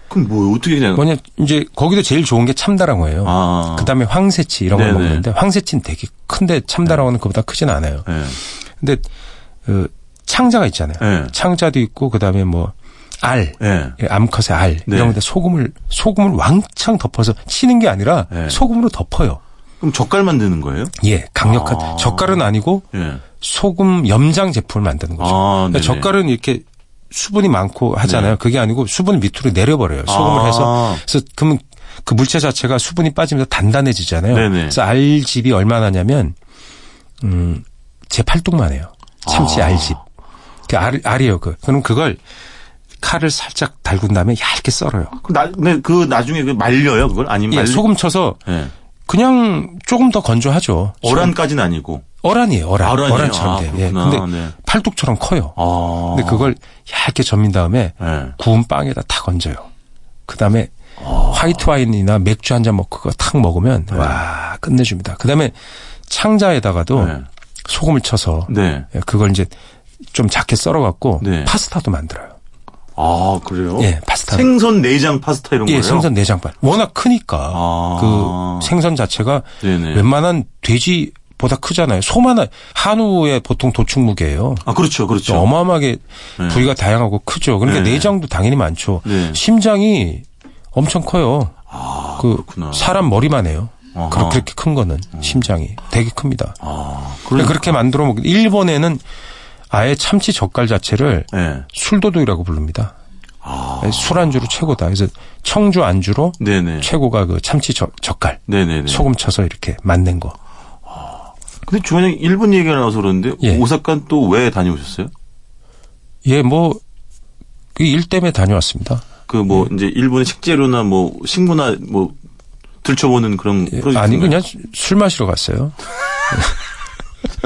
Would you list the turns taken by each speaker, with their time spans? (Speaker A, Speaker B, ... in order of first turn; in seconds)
Speaker A: 0.1-1.0, 3.2-3.9, 4.7-5.2, 8.1-8.4, 11.0-11.3, 13.6-14.0, 14.9-15.2, 18.3-18.6, 19.8-20.9, 21.4-23.2, 25.2-26.1, 28.0-28.4, 30.1-31.0, 34.3-34.8, 39.2-40.0, 45.1-47.8, 48.4-48.7, 51.0-52.0, 52.8-54.5, 55.5-56.5, 58.0-58.4, 61.0-61.6, 63.9-64.2, 66.9-67.2, 68.5-68.9, 71.2-71.5, 73.0-76.1, 77.5-78.7, 79.6-80.0, 84.6-85.5, 86.4-86.7, 87.6-88.1, 89.0-89.4, 91.7-93.0, 93.9-94.5, 95.1-95.5, 96.6-97.7, 101.3-101.7, 103.4-104.4, 106.4-106.9, 108.5-109.1, 110.9-115.1, 119.3-122.2, 122.8-124.4
Speaker B: 0.9-8.1, 9.6-19.4, 21.0-22.8, 23.4-36.3, 37.2-40.0, 40.7-42.2, 43.0-45.1, 47.5-48.4, 49.1-51.3, 52.2-55.6, 56.1-59.6, 60.3-60.7, 61.3-65.5, 66.1-67.2, 67.7-69.5, 70.1-72.3, 73.8-74.5, 75.7-84.6, 85.3-91.5, 92.2-96.6, 97.3-99.0, 99.7-102.9, 103.8-110.3, 116.2-116.8, 117.8-119.0, 123.7-125.8, 126.3-126.6